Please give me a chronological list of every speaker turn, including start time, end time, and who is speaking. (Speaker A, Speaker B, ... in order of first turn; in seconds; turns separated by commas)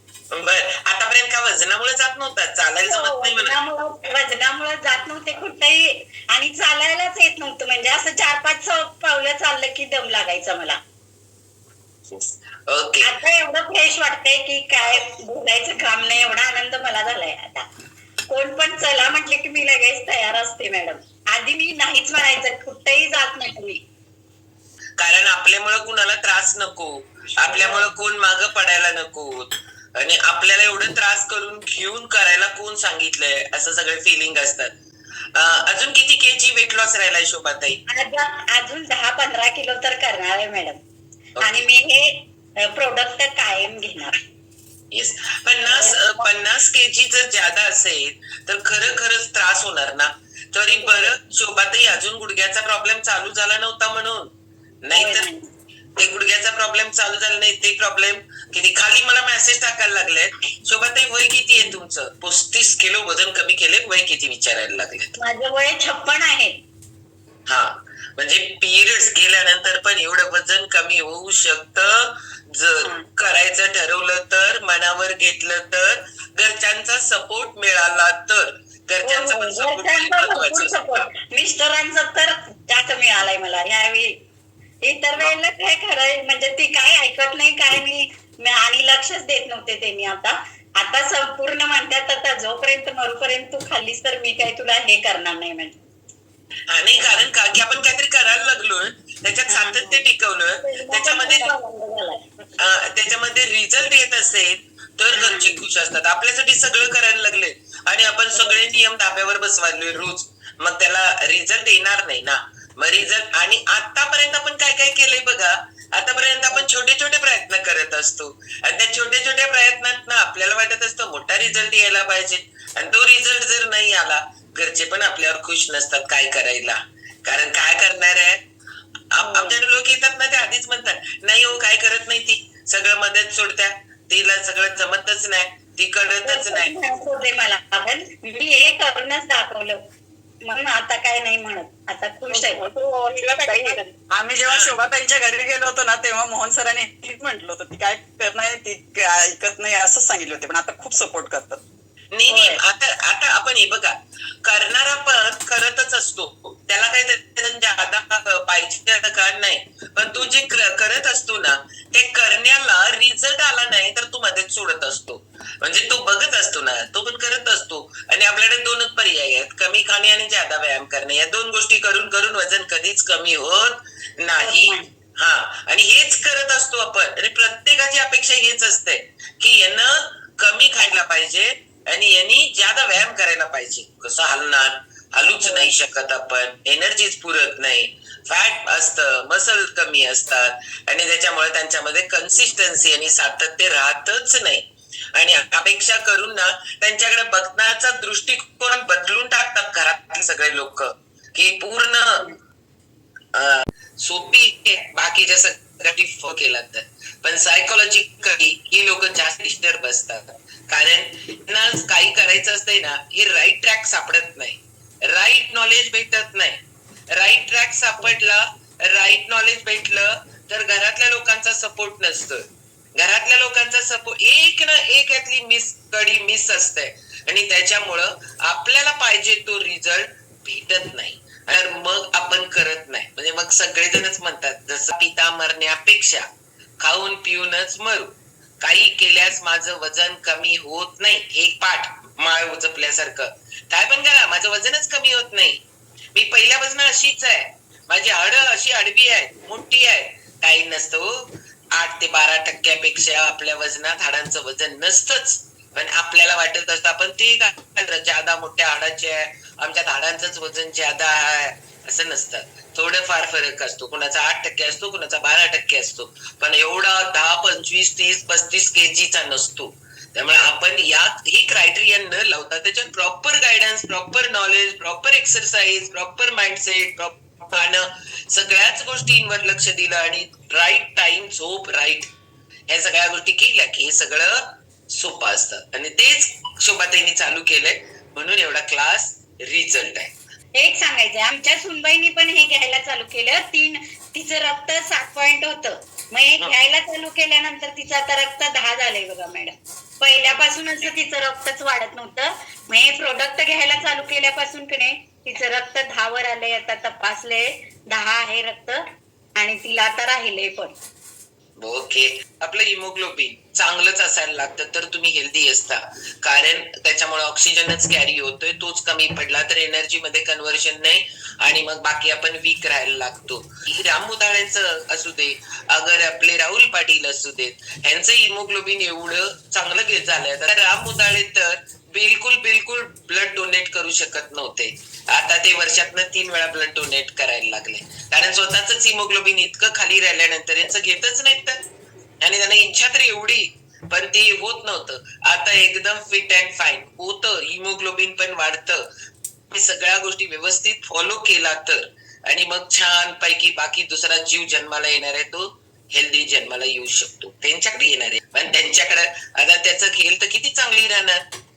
Speaker A: 0.3-3.6, Speaker B: 2.9-10.8, Speaker A: 12.1-13.1, Speaker B: 13.0-17.6, Speaker B: 18.3-23.8, Speaker A: 25.0-34.7, Speaker B: 27.5-27.9, Speaker A: 35.4-37.8, Speaker B: 37.9-40.8, Speaker A: 41.4-41.6, Speaker B: 41.4-44.1, Speaker A: 44.9-54.3, Speaker B: 45.6-46.3, Speaker B: 50.7-51.1, Speaker A: 54.8-55.3, Speaker B: 54.9-55.4, Speaker A: 56.0-65.1, Speaker B: 65.2-66.5, Speaker A: 67.5-81.0, Speaker B: 72.8-73.1, Speaker B: 79.0-84.1, Speaker B: 84.8-95.8, Speaker A: 96.7-101.5, Speaker B: 99.5-100.0, Speaker B: 100.6-102.3, Speaker A: 102.6-128.4, Speaker B: 105.1-105.6, Speaker B: 108.3-108.6, Speaker A: 129.1-136.7, Speaker B: 129.2-129.6, Speaker B: 136.2-139.8, Speaker B: 140.4-142.6, Speaker C: 142.3-151.6, Speaker A: 152.1-153.9, Speaker B: 152.3-152.6, Speaker A: 154.4-202.3, Speaker B: 174.4-174.9, Speaker B: 185.4-185.7, Speaker A: 203.3-216.6, Speaker A: 217.2-222.4, Speaker A: 223.0-236.2, Speaker A: 236.8-245.6, Speaker A: 246.1-282.1, Speaker A: 282.7-290.1, Speaker B: 290.6-308.8, Speaker B: 309.4-310.8, Speaker A: 311.6-341.6, Speaker A: 342.2-348.9, Speaker A: 349.5-361.2